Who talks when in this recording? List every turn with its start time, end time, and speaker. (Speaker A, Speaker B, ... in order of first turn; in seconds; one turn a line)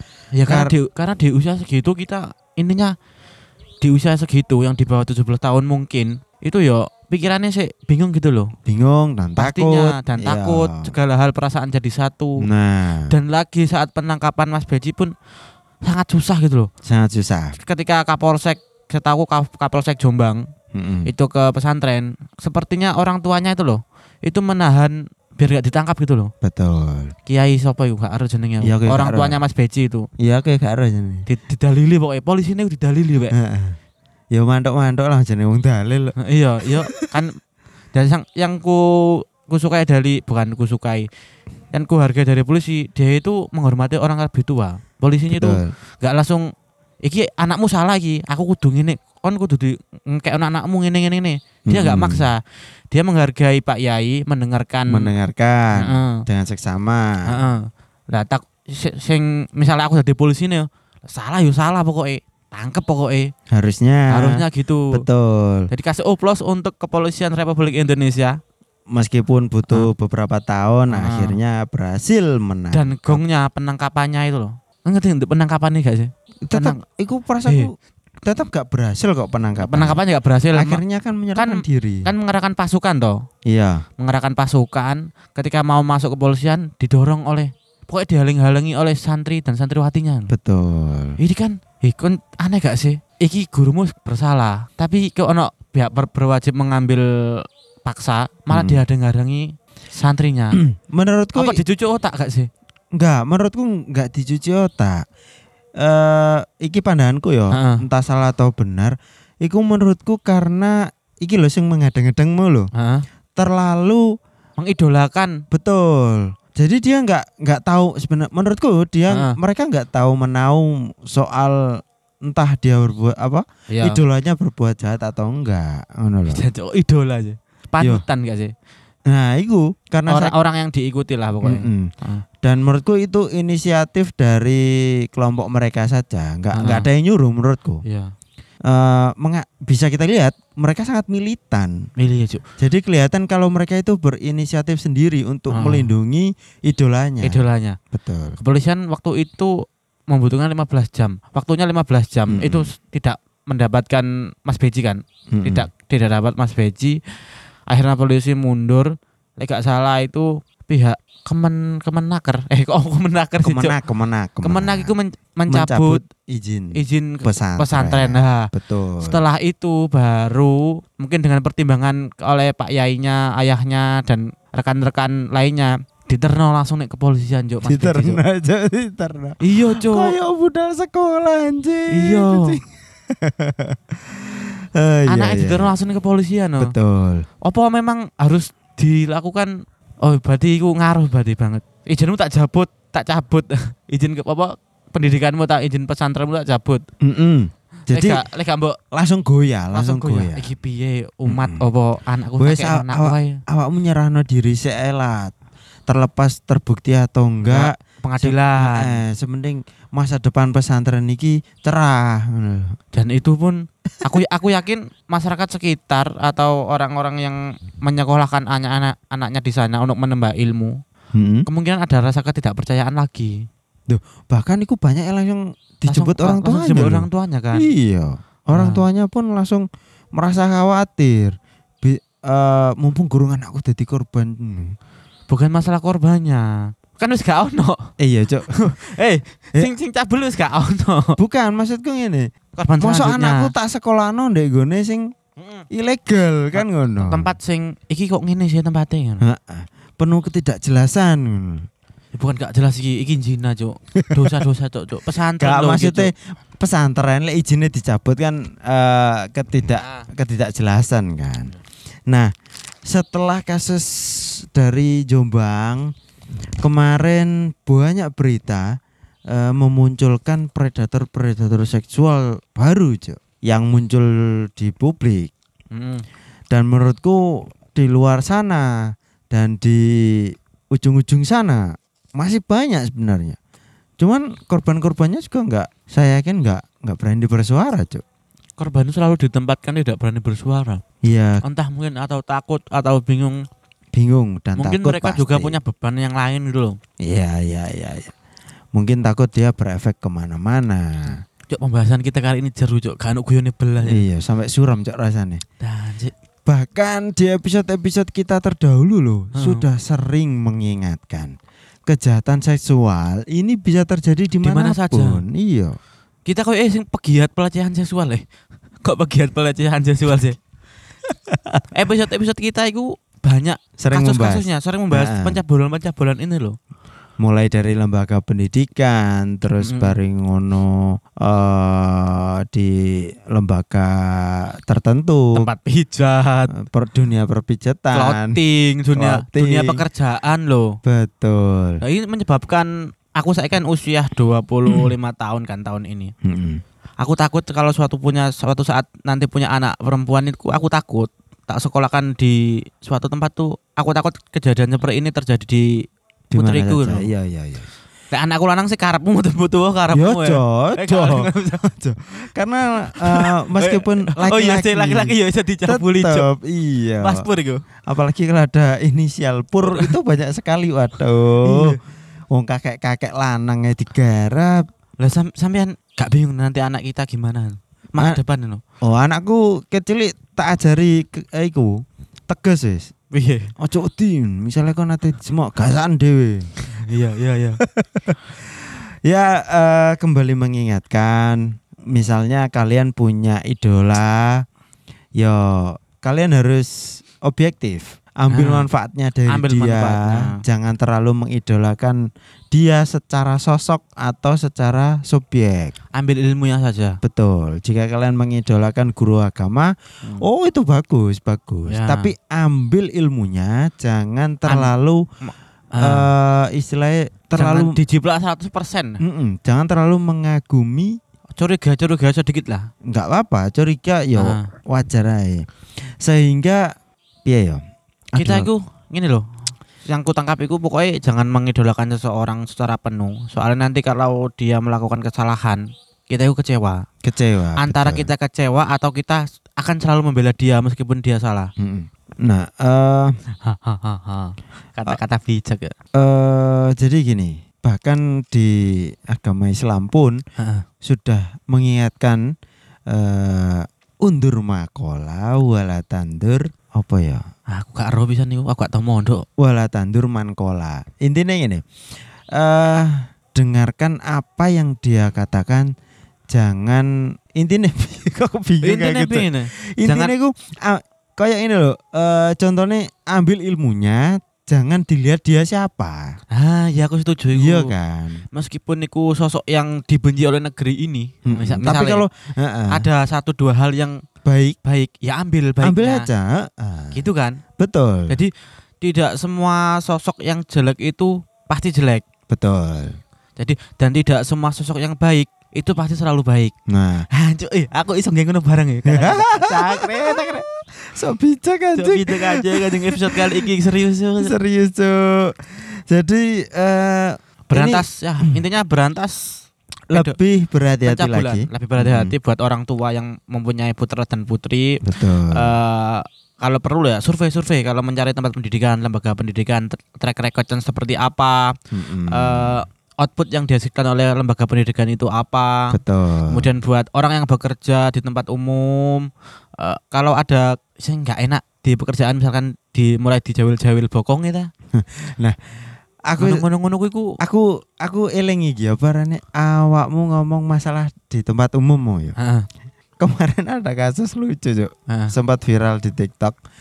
Speaker A: 0.3-2.9
Speaker B: 0.5-0.7
Speaker A: 3.8-8.5
Speaker B: 8.7-10.9
Speaker A: 9.4-12.5
Speaker B: 12.4-13.1
Speaker A: 13.1-15.1
Speaker A: 15.8-16.7
Speaker B: 16.9-17.6
Speaker A: 17.6-20.4
Speaker B: 20.7-21.1
Speaker A: 21.1-26.3
Speaker B: 26.4-27.1
Speaker A: 27.3-30.1
Speaker B: 28.6-29.4
Speaker B: 30.2-31.2
Speaker A: 31.3-33.3
Speaker B: 33.3-33.8
Speaker B: 34.3-36.1
Speaker A: 36.2-37.3
Speaker B: 36.7-37.1
Speaker A: 37.9-41.1
Speaker A: 41.7-46.5
Speaker B: 45.3-45.7
Speaker A: 47.0-55.1
Speaker B: 51.7-52.3
Speaker B: 54.9-57.2
Speaker A: 55.7-56.2
Speaker A: 57.3-63.3
Speaker B: 63.5-65.7
Speaker A: 64.1-65.0
Speaker A: 65.7-68.4
Speaker B: 68.9-73.2
Speaker A: 70.9-71.4
Speaker A: 72.7-76.8
Speaker B: 76.5-77.7
Speaker B: 78.2-80.0
Speaker A: 79.6-80.8
Speaker B: 80.5-82.1
Speaker A: 81.4-83.2
Speaker B: 83.5-83.8
Speaker A: 84.0-90.3
Speaker B: 90.3-91.2
Speaker A: 91.2-100.6
Speaker B: 98.5-98.8
Speaker B: 100.5-101.6
Speaker A: 101.4-102.5
Speaker B: 103.0-105.0
Speaker B: 105.8-112.7
Speaker A: 107.5-107.8
Speaker A: 112.8-113.1
Speaker B: 113.3-114.0
Speaker A: 114.6-115.4
Speaker B: 115.5-126.4
Speaker A: 119.1-119.4
Speaker A: 123.7-124.0
Speaker A: 126.3-128.5
Speaker B: 129.1-130.4
Speaker A: 130.1-132.2
Speaker B: 131.4-131.9
Speaker B: 132.4-137.8
Speaker A: 136.6-136.9
Speaker A: 137.8-138.1
Speaker B: 138.7-141.8
Speaker A: 142.0-142.4
Speaker B: 142.6-148.4
Speaker A: 145.5-145.9
Speaker A: 147.2-147.8
Speaker A: 148.4-149.5
Speaker A: 150.1-157.0
Speaker B: 152.3-152.7
Speaker B: 155.3-155.7
Speaker A: 157.7-163.8
Speaker B: 163.4-164.9
Speaker A: 164.4-166.0
Speaker B: 165.5-169.2
Speaker A: 166.7-178.2
Speaker B: 177.7-185.8
Speaker A: 179.4-180.2
Speaker A: 181.9-182.6
Speaker A: 185.1-186.7
Speaker B: 186.6-187.3
Speaker A: 187.4-196.8
Speaker B: 197.0-198.2
Speaker A: 197.9-198.8
Speaker B: 198.9-200.5
Speaker A: 199.7-203.4
Speaker B: 201.3-201.6
Speaker B: 202.4-205.3
Speaker B: 205.9-212.7
Speaker A: 207.4-209.0
Speaker A: 212.9-220.8
Speaker B: 221.2-221.5
Speaker A: 221.5-223.5
Speaker B: 223.9-234.8
Speaker A: 225.9-227.7
Speaker A: 228.5-228.8
Speaker A: 235.3-237.9
Speaker B: 238.0-238.5
Speaker A: 238.5-241.2
Speaker B: 241.2-242.3
Speaker A: 242.6-243.5
Speaker B: 242.8-245.1
Speaker A: 245.4-245.6
Speaker B: 245.7-247.3
Speaker A: 246.6-249.2
Speaker B: 249.2-251.7
Speaker A: 252.1-256.1
Speaker B: 254.0-254.4
Speaker B: 255.4-261.5
Speaker A: 259.8-260.1
Speaker B: 262.9-265.9
Speaker B: 266.6-268.7
Speaker B: 269.3-275.3
Speaker A: 275.7-276.1
Speaker B: 276.5-278.8
Speaker B: 279.3-283.4
Speaker B: 284.0-288.0
Speaker A: 288.6-290.8
Speaker B: 291.0-291.4
Speaker A: 291.4-293.4
Speaker B: 293.9-295.6
Speaker A: 294.6-296.8
Speaker B: 297.0-298.1
Speaker B: 298.8-301.2
Speaker A: 301.5-304.1
Speaker B: 303.8-305.4
Speaker A: 305.6-306.1
Speaker B: 306.5-311.4
Speaker A: 309.4-309.6
Speaker B: 311.9-315.8
Speaker A: 314.4-315.2
Speaker A: 316.3-318.2
Speaker A: 318.8-320.4
Speaker B: 321.4-321.6
Speaker A: 321.7-326.6
Speaker B: 323.8-325.4
Speaker B: 327.2-335.4
Speaker A: 329.5-329.9
Speaker A: 335.4-336.5
Speaker B: 336.5-338.4
Speaker A: 337.9-340.8
Speaker B: 338.9-339.8
Speaker B: 340.8-341.8
Speaker A: 341.8-346.1
Speaker B: 346.2-346.6
Speaker A: 347.0-357.1
Speaker B: 356.3-357.7
Speaker A: 358.1-361.6
Speaker B: 359.9-365.1
Speaker A: 362.9-366.3
Speaker B: 365.7-367.3
Speaker A: 367.0-367.6
Speaker B: 367.9-371.8
Speaker A: 369.6-369.9
Speaker A: 371.4-371.8
Speaker B: 372.3-374.6
Speaker A: 375.0-378.6
Speaker B: 378.8-382.9
Speaker A: 383.1-383.5
Speaker B: 383.6-386.5
Speaker A: 386.6-387.6
Speaker B: 387.6-388.5
Speaker B: 389.1-394.4
Speaker B: 395.2-402.0
Speaker A: 398.3-398.7
Speaker A: 399.3-400.4
Speaker B: 402.5-405.7
Speaker A: 405.9-407.0
Speaker B: 407.0-415.0
Speaker A: 411.7-412.1
Speaker A: 415.3-416.1
Speaker B: 415.8-417.8
Speaker A: 417.4-419.0
Speaker B: 419.0-421.0
Speaker A: 421.4-422.7
Speaker B: 422.9-425.4
Speaker A: 424.2-424.5
Speaker B: 426.0-426.7
Speaker B: 427.3-427.6
Speaker B: 428.2-428.5
Speaker A: 428.2-436.9
Speaker B: 437.0-438.1
Speaker A: 437.6-441.5
Speaker B: 441.6-443.1
Speaker A: 443.4-445.7
Speaker B: 446.0-450.2
Speaker A: 450.4-450.6
Speaker B: 450.8-452.2
Speaker B: 452.9-457.2
Speaker A: 457.5-459.2
Speaker B: 459.4-461.6
Speaker B: 462.4-465.7
Speaker B: 466.3-476.2
Speaker A: 468.6-470.1
Speaker A: 476.3-477.7
Speaker B: 477.4-478.2
Speaker A: 478.3-482.1
Speaker B: 481.3-482.9
Speaker A: 482.7-484.0
Speaker B: 484.2-484.6
Speaker A: 484.6-486.1
Speaker B: 485.6-487.0
Speaker A: 486.9-487.4
Speaker B: 487.6-488.2
Speaker A: 488.1-492.1
Speaker B: 492.3-492.9
Speaker A: 493.4-496.5
Speaker B: 496.7-497.1
Speaker A: 497.1-500.4
Speaker B: 498.9-500.3
Speaker B: 500.9-503.3
Speaker A: 501.8-504.3
Speaker B: 504.2-507.9
Speaker A: 507.5-509.3
Speaker A: 509.9-510.2
Speaker B: 509.9-512.1
Speaker A: 510.9-521.5
Speaker B: 514.9-515.5
Speaker B: 521.7-522.6
Speaker A: 522.1-525.8
Speaker B: 525.7-526.5
Speaker A: 526.3-534.5
Speaker B: 534.7-535.4
Speaker B: 536.1-536.4
Speaker A: 536.2-537.2
Speaker B: 537.2-542.1
Speaker A: 542.2-542.5
Speaker B: 543.0-546.4